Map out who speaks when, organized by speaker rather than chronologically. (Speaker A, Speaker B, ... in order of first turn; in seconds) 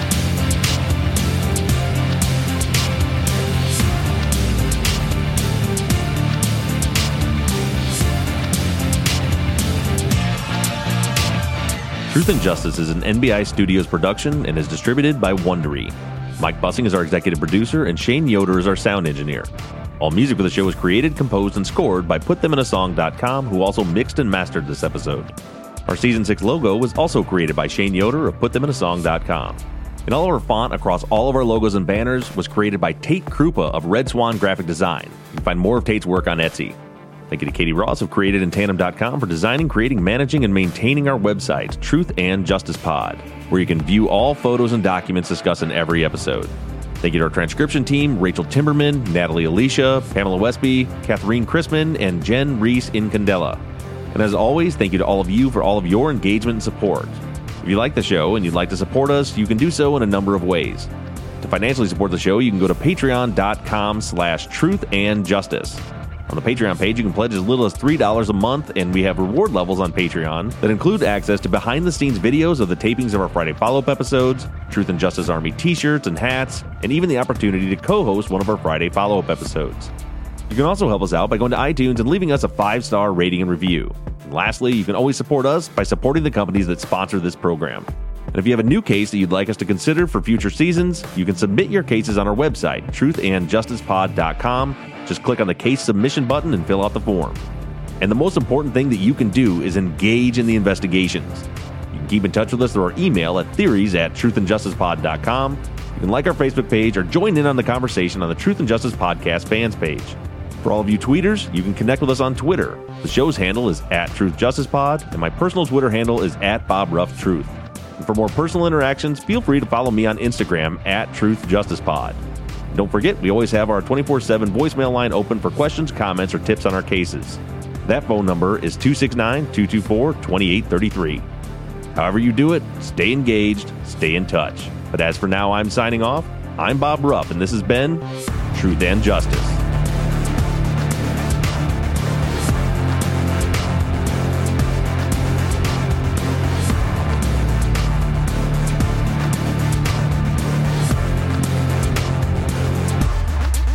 Speaker A: 12.1-25.3, 25.9-36.8, 37.3-53.6, 54.1-60.9, 61.4-79.9, 80.5-97.4, 98.0-122.2, 122.7-131.3, 131.9-139.6